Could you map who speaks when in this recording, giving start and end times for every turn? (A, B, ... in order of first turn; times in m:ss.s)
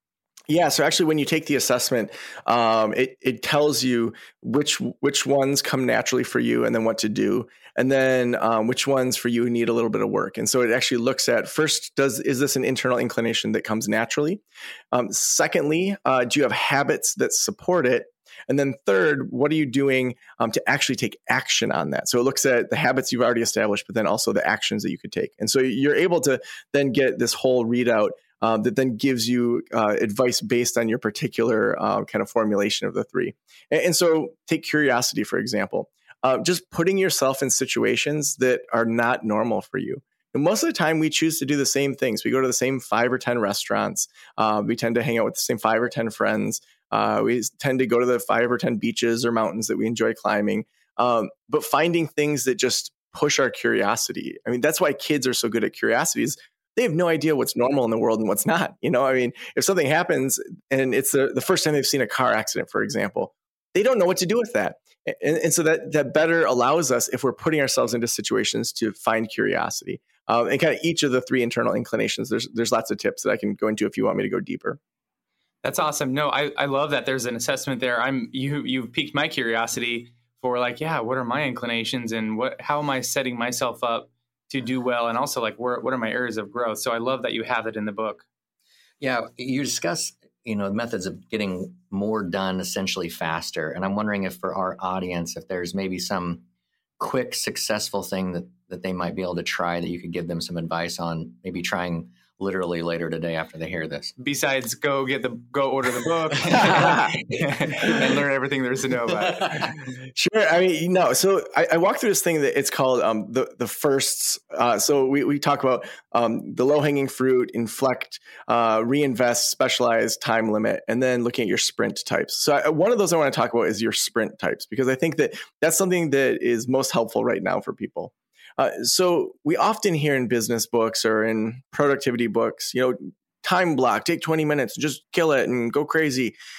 0:00.5-0:14.4 A
0:14.9-1:14.8 A
1:15.6-1:28.2 B
1:29.0-1:36.4 C
1:37.0-1:44.1 C
1:44.2-1:49.7 B
1:46.5-1:46.9 C
1:46.7-1:47.1 A
1:50.2-2:16.4 A